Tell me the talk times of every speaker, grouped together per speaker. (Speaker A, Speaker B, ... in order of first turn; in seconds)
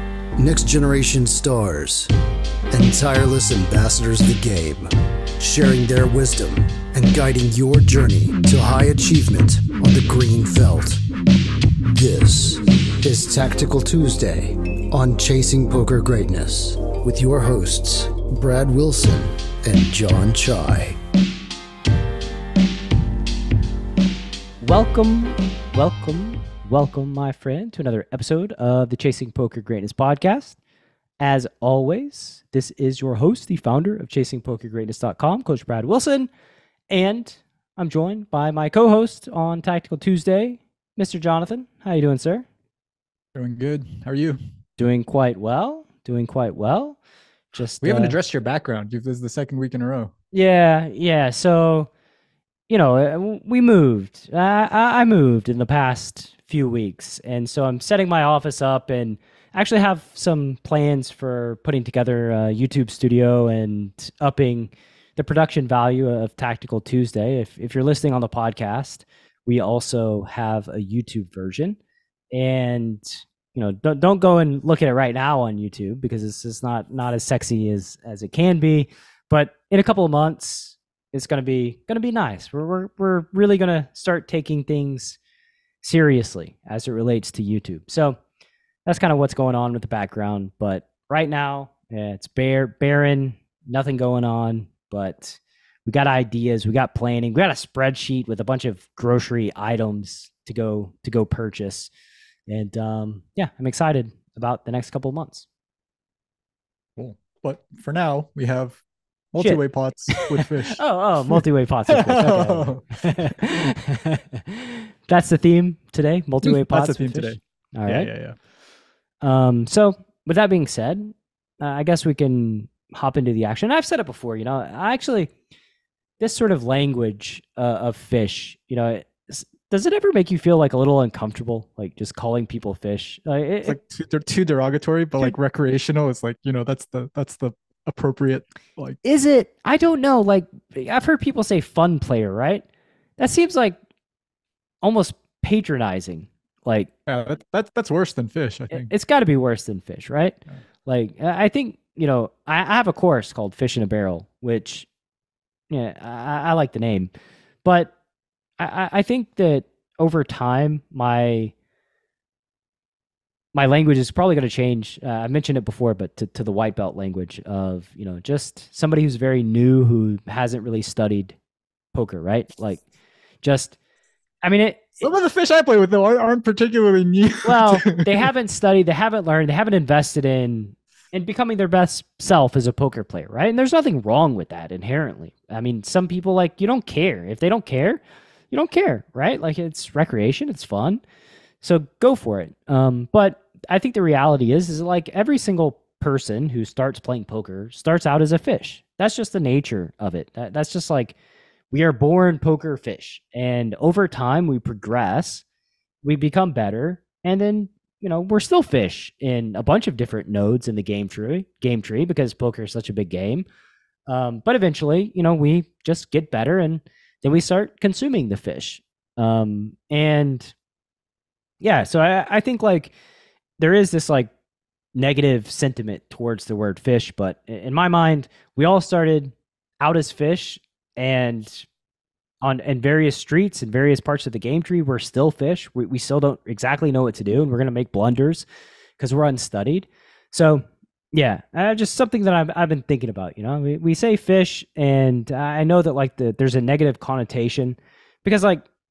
Speaker A: 0.4-2.1, 2.7-11.0, 11.8-21.0
Speaker B: 24.6-30.6, 31.2-36.3, 36.9-42.5, 44.8-47.0, 47.5-48.2, 50.3-51.9, 52.7-71.8, 72.3-85.2, 85.8-88.2, 88.9-101.9, 102.5-105.5, 109.4-118.1, 119.2-125.3, 126.2-133.8, 139.0-142.7, 143.2-143.8, 144.8-146.9, 148.7-154.9, 155.7-157.1, 157.6-157.9, 158.6-161.5, 163.5-171.3, 171.9-172.8, 173.4-173.8, 174.4-175.0, 177.4-191.0, 191.6-201.2, 201.7-205.4, 206.0-213.4, 214.1-220.5, 221.6-222.9, 223.6-224.3, 224.9-231.7, 232.4-238.4, 239.0-248.7
Speaker C: 43.3-44.4, 47.8-50.1, 107.0-108.8, 109.3-113.3, 116.4-118.4, 133.6-139.0, 147.1-148.9, 175.0-178.1